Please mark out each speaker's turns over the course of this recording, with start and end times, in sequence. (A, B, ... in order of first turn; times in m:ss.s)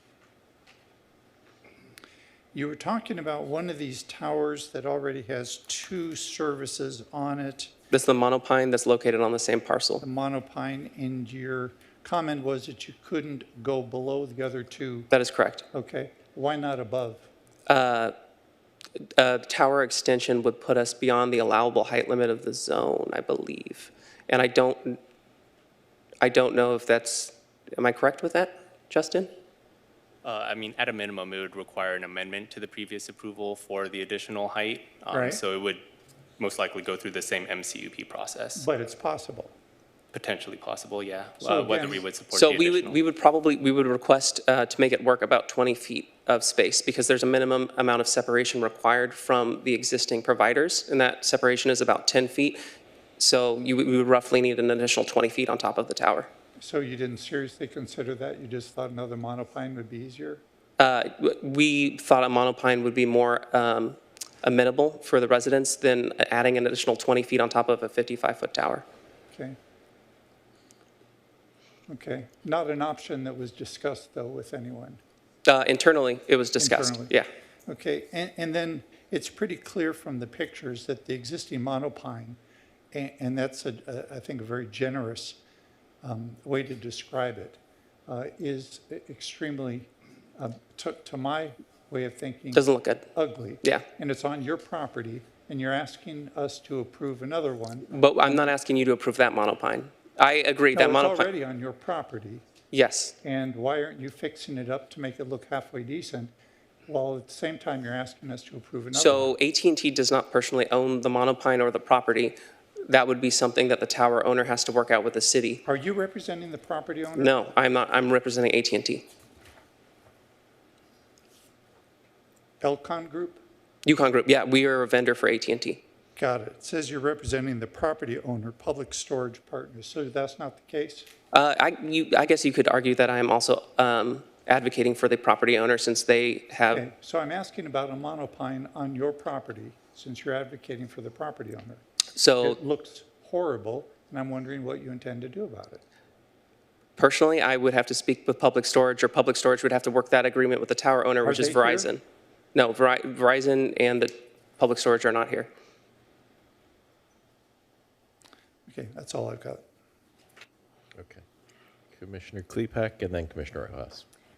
0:02.5-0:07.7 A
0:07.9-0:10.0 B
0:10.0-0:15.1 A
0:15.1-0:15.6 B
0:15.7-0:17.3 A
0:17.7-0:18.1 B
0:19.2-0:25.0 B
0:26.2-0:29.3 B
0:30.2-0:35.8 C
0:35.1-0:35.4 A
0:36.4-0:38.7 C
0:38.6-0:39.6 A
0:40.1-0:43.0 C
0:41.4-0:42.1 A
0:42.3-0:52.6 B
0:53.2-0:56.3 B
0:56.6-1:00.4 A
1:00.8-1:08.8 B
1:11.9-1:15.0 A
1:15.5-1:17.3 B
1:16.6-1:17.1 A
1:17.7-1:22.4 A
1:22.9-1:25.4 A
1:26.0-1:38.5 A
1:32.5-1:33.1 B
1:37.9-1:41.3 B
1:40.7-1:42.4 A
1:42.7-1:43.2 B
1:43.2-1:46.3 A
1:46.9-1:49.3 A
1:48.9-1:52.4 B
1:52.9-1:55.6 B
1:55.6-1:57.5 A
1:57.2-1:59.1 B
2:02.6-2:03.4 A
2:03.9-2:05.8 B
2:06.2-2:11.1 A
2:11.3-2:16.8 B
2:16.7-2:21.8 A
2:22.2-2:22.6 B
2:22.4-2:25.8 A
2:27.0-2:32.0 B
2:31.2-2:31.9 A
2:32.6-2:35.5 B
2:38.7-2:39.6 A
2:41.0-2:41.2 D
2:41.9-2:44.0 D